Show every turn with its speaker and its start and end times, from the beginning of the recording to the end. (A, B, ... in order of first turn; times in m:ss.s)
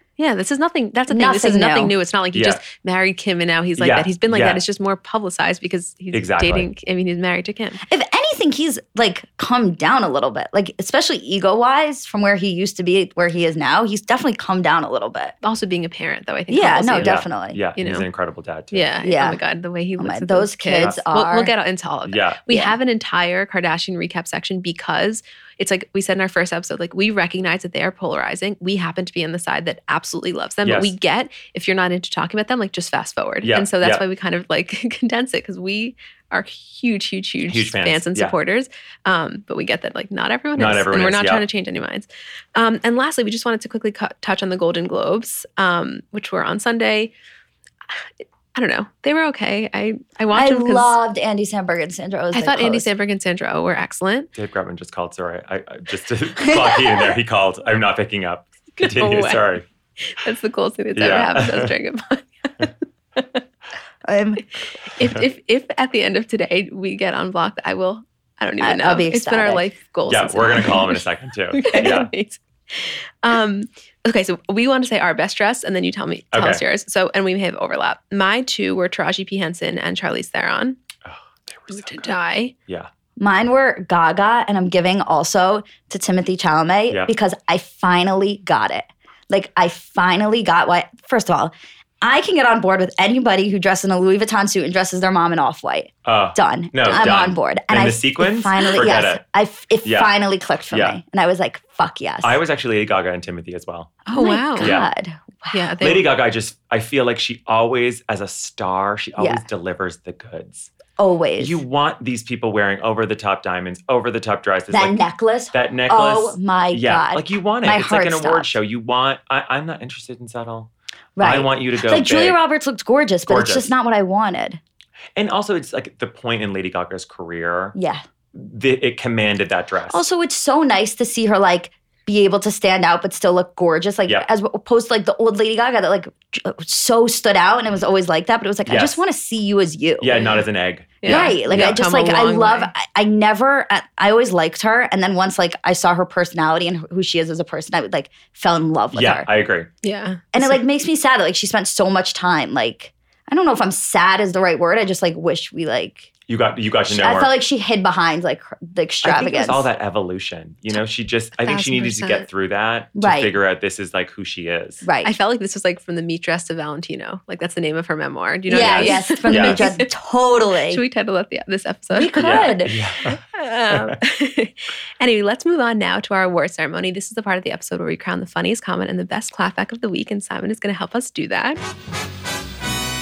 0:00.2-0:07.8 A
0:01.1-0:01.9 B
0:02.3-0:02.6 C
0:03.8-0:04.6 C
0:06.1-0:06.7 C
0:07.8-0:15.3 B
0:15.4-0:17.2 A
0:16.5-0:17.6 B
0:17.0-0:18.9 C
0:17.8-0:18.1 A
0:18.7-0:47.1 A
0:19.0-0:19.4 B
0:20.0-0:21.5 B
0:22.0-0:22.4 C
0:22.5-0:22.8 B
0:30.6-0:30.9 C
0:33.4-0:34.0 C
0:37.4-0:38.3 C
0:40.6-0:41.4 C
0:48.5-0:51.0 A
0:50.3-0:52.9 B
0:52.3-0:54.3 A
0:54.3-0:59.6 C
0:56.4-0:57.0 B
0:58.8-0:59.4 A
1:00.0-1:03.4 A
1:01.0-1:01.7 C
1:04.0-1:04.4 B
1:04.9-1:11.0 A
1:05.0-1:05.2 C
1:08.6-1:09.7 B
1:10.1-1:12.1 C
1:11.5-1:20.8 A
1:16.3-1:16.6 C
1:21.0-1:22.1 C
1:21.7-1:22.5 A
1:23.2-1:42.4 B
1:36.0-1:39.2 C
1:39.8-1:40.1 C
1:40.7-1:41.0 C
1:42.2-1:44.0 C
1:44.0-1:45.7 B
1:44.1-1:44.8 A
1:44.6-1:44.9 C
1:45.5-1:46.1 A
1:45.8-1:50.7 C
1:49.2-1:49.4 B
1:51.0-1:51.6 B
1:51.4-2:02.4 C
1:54.7-1:58.6 B
2:01.2-2:04.6 B
2:03.3-2:03.7 C
2:05.2-2:07.8 C
2:07.7-2:08.0 B
2:08.3-2:10.0 C
2:09.9-2:20.3 B
2:18.7-2:19.0 C
2:20.0-2:21.8 C
2:20.2-2:20.4 A
2:21.0-2:22.7 A
2:21.0-2:29.3 B
2:28.9-2:29.7 C
2:29.8-2:30.4 A
2:30.3-2:36.1 B
2:36.3-2:37.3 C
2:36.9-2:39.7 B
2:39.0-2:44.8 C
2:41.4-2:42.2 A
2:43.0-2:43.3 B
2:44.8-2:45.1 B
2:45.0-2:49.9 A
2:48.5-2:50.8 B
2:48.5-2:49.7 C
2:50.7-3:01.6 A
2:51.9-2:52.8 B
2:52.2-2:54.0 C